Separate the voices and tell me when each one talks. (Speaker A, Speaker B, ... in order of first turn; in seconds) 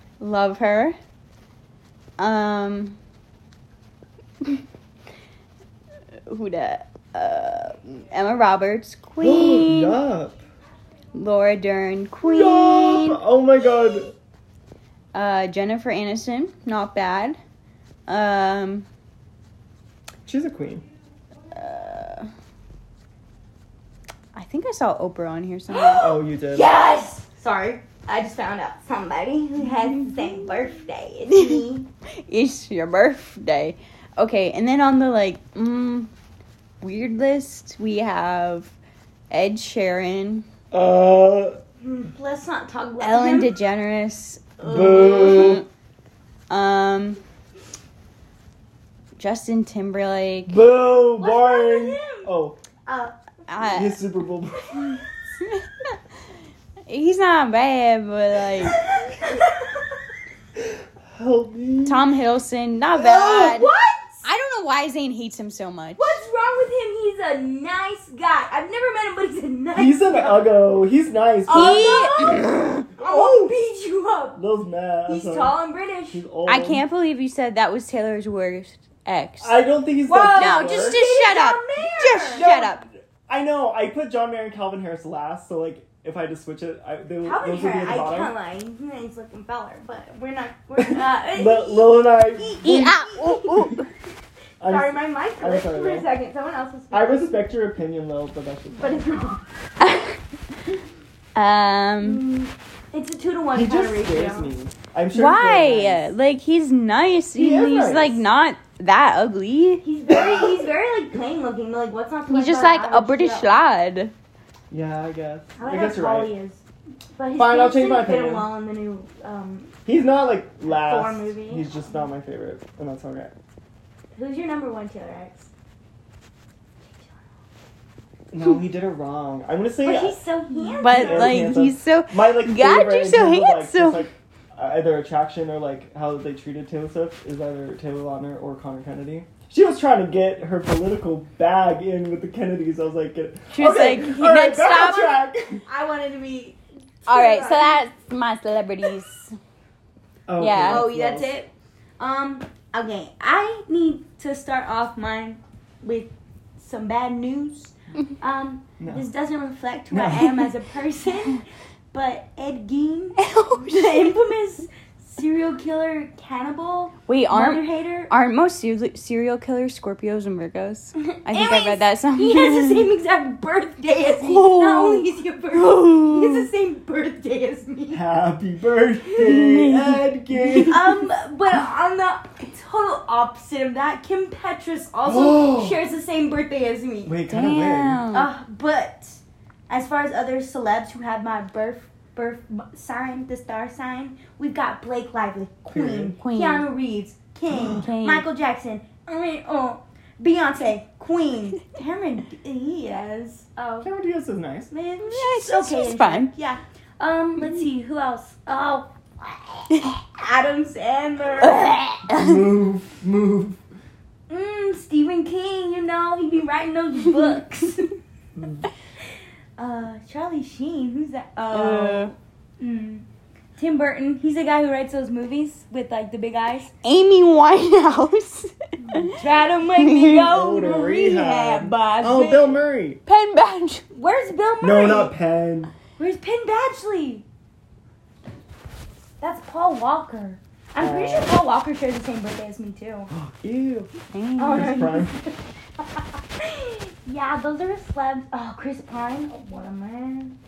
Speaker A: 0.2-0.9, 2.2-3.0, 6.3-10.0, 11.1-13.2, 15.1-17.4, 18.1-18.9, 21.5-22.3, 24.3-26.1, 32.3-36.1, 36.8-38.7, 39.3-40.5, 43.0-45.6, 46.5-47.2, 49.2-50.6, 53.5-53.9, 55.4-55.9, 56.9-58.8, 61.8-63.7, 64.2-66.2, 71.5-72.8, 76.5-79.5, 80.3-82.8, 92.6-93.9, 99.8-100.2, 101.3-102.2, 105.1-109.8, 112.3-114.1, 130.8-134.0, 143.5-145.2, 147.1-149.3, 150.4-150.9, 163.2-164.2, 167.1-172.9, 174.1-176.5, 179.2-180.1, 187.3-188.3, 196.1-196.7, 197.7-198.2, 205.0-206.3, 209.7-210.0, 211.4-212.4, 221.5-222.1, 226.8-229.2, 229.8-230.3, 233.1-233.8, 244.1-244.9
Speaker B: 9.2-10.4, 12.2-14.1, 20.2-20.8, 26.0-26.7, 40.7-41.6, 44.6-45.6, 50.5-52.6, 53.7-55.0, 60.5-62.1, 69.7-72.1, 72.9-73.5, 74.3-75.6, 76.1-76.8, 79.4-81.0, 82.3-88.3, 90.8-92.9, 94.6-96.1, 96.9-99.0, 103.5-106.1, 107.3-108.2, 110.1-110.5, 114.7-116.3, 117.3-118.5, 119.8-123.3, 128.3-130.2, 130.8-145.6, 150.3-151.3, 158.8-159.0, 159.9-160.5, 177.9-181.0, 185.0-185.8, 187.1-188.0, 195.7-196.2, 197.5-197.8, 203.8-204.7, 212.1-213.6, 218.3-218.7, 230.2-233.0, 234.6-235.7, 240.8-241.3, 243.1-243.9, 244.5-245.1
Speaker C: 25.7-31.9, 41.8-43.5, 44.6-45.6, 51.2-52.3, 52.9-53.1, 58.6-59.8, 62.9-64.2, 66.0-70.5, 71.5-74.4, 75.0-76.2, 80.1-82.5, 87.2-93.8, 94.6-97.4, 98.7-99.4, 102.0-104.5, 109.8-113.5, 115.6-116.6, 117.2-119.7, 120.6-121.7, 124.1-125.5, 129.8-131.6, 144.5-147.8, 150.6-168.1, 171.1-178.0, 180.4-187.2, 188.1-203.9, 204.7-211.8, 214.3-217.9, 219.6-223.0, 223.6-226.7, 228.9-232.6, 233.9-235.1, 236.0-237.2, 239.2-243.1, 244.4-250.4